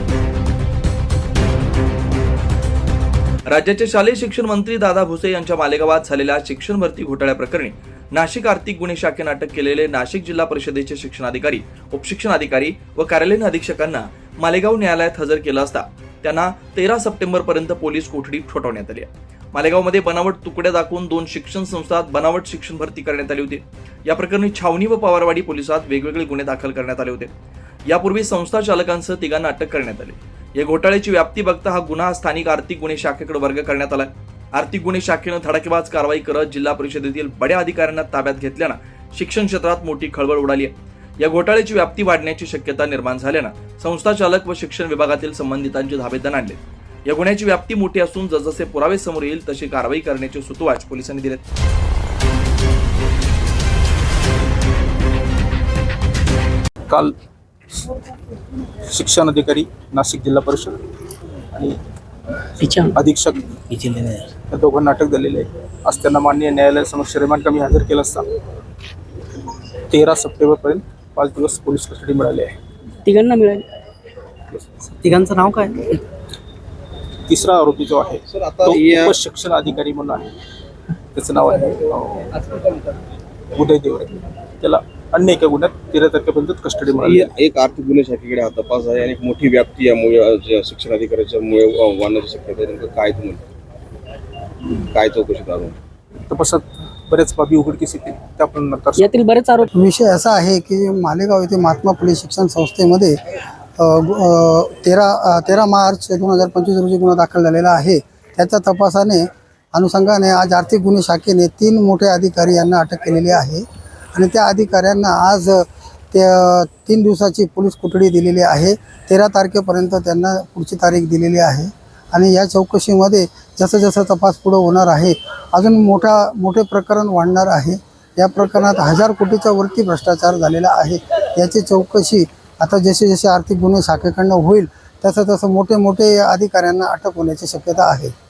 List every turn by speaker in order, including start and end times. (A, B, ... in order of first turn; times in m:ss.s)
0:03.5-0:27.3 A
0:27.9-0:51.4 A
0:56.9-0:57.1 B
0:58.8-1:00.8 B
1:01.5-1:01.8 B
1:02.6-1:03.0 C
1:02.9-1:03.8 B
1:03.8-1:04.3 C
1:04.4-1:08.2 B
1:09.9-1:12.6 B
1:13.0-1:13.6 C
1:14.5-1:14.9 B
1:14.9-1:16.0 C
1:17.3-1:20.3 B
1:18.3-1:19.1 D
1:21.1-1:22.7 B
1:23.5-1:27.3 B
1:26.9-1:33.4 D
1:34.7-1:35.8 D
1:36.3-1:39.1 B
1:39.0-1:39.7 C
1:39.7-1:43.2 E
1:43.8-1:53.6 E
1:54.1-2:18.1 E